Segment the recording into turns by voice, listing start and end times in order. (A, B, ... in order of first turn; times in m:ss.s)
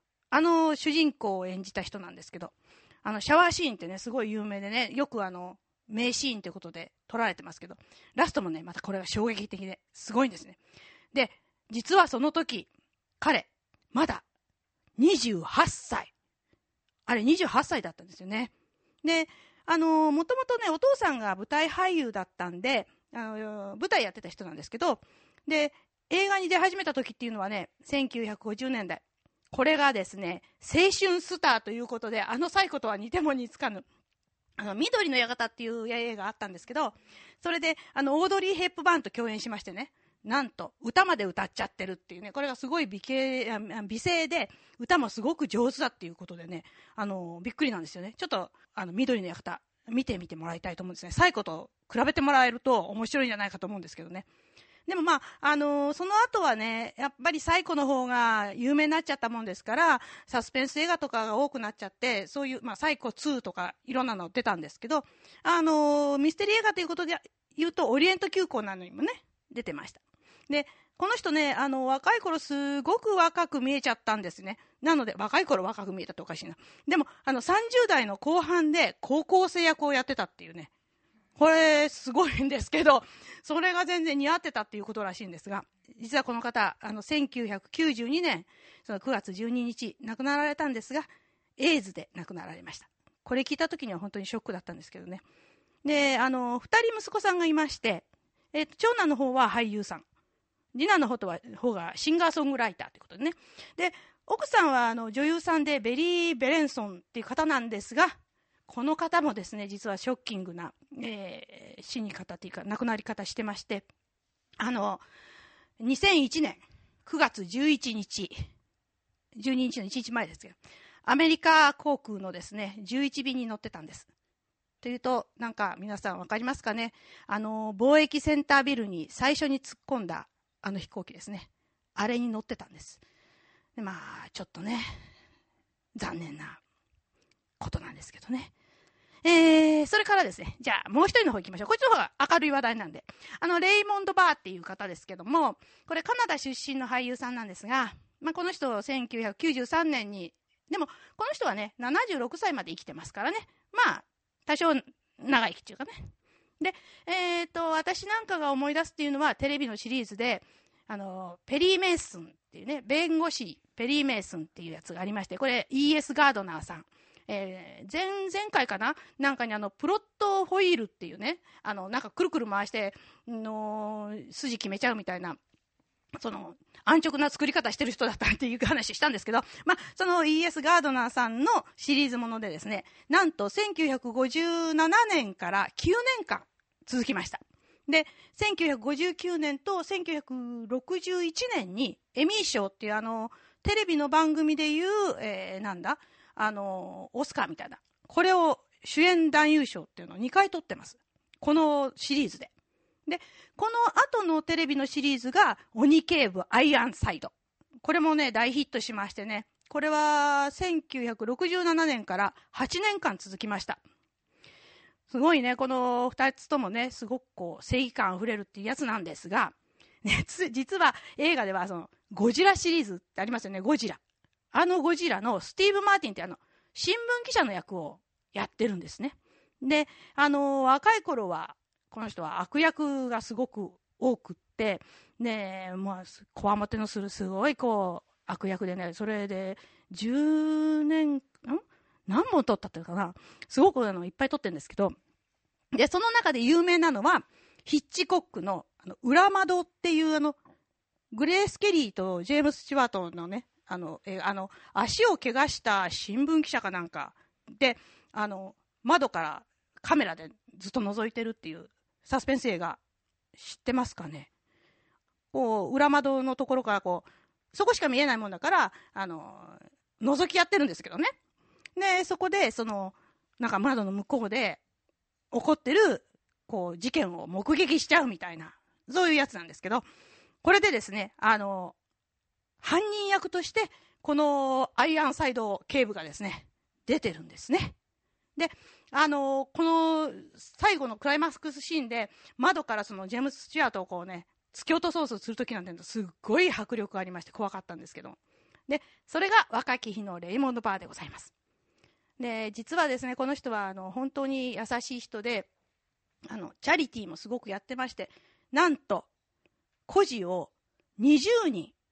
0:00.3-0:02.5 A
0:03.0-0:10.6 A
0:11.1-0:12.7 A
0:13.2-0:14.2 A
0:15.0-0:16.1 A
0:17.1-0:18.5 A
0:19.0-0:33.8 A
0:34.6-0:54.3 A
0:54.9-1:20.7 A
1:21.4-1:35.2 A
1:35.8-1:40.0 A
1:40.7-1:48.1 A
1:48.7-1:53.9 A
1:54.6-1:55.0 A
1:55.8-1:58.4 A
1:59.4-2:04.1 A
2:04.8-2:13.0 A
2:13.8-2:14.9 A
2:16.0-2:16.6 A
2:17.6-2:18.5 A
2:19.2-2:36.0 A
2:36.6-2:55.4 A
2:56.2-3:22.5 A
3:23.1-3:27.3 A
3:27.8-3:33.8 A
3:35.1-3:44.0 A
3:44.5-4:05.0 A
4:05.7-4:10.4 A
4:11.1-4:22.8 A
4:23.4-4:24.3 A
4:25.3-4:31.1 A
4:31.8-4:34.6 A
4:35.3-4:39.8 A
4:40.4-4:41.8 A
4:42.6-4:47.8 A
4:48.4-4:58.2 A
4:58.7-5:01.3 A
5:02.2-5:05.5 A
5:06.3-5:09.1 A
5:09.9-5:11.7 A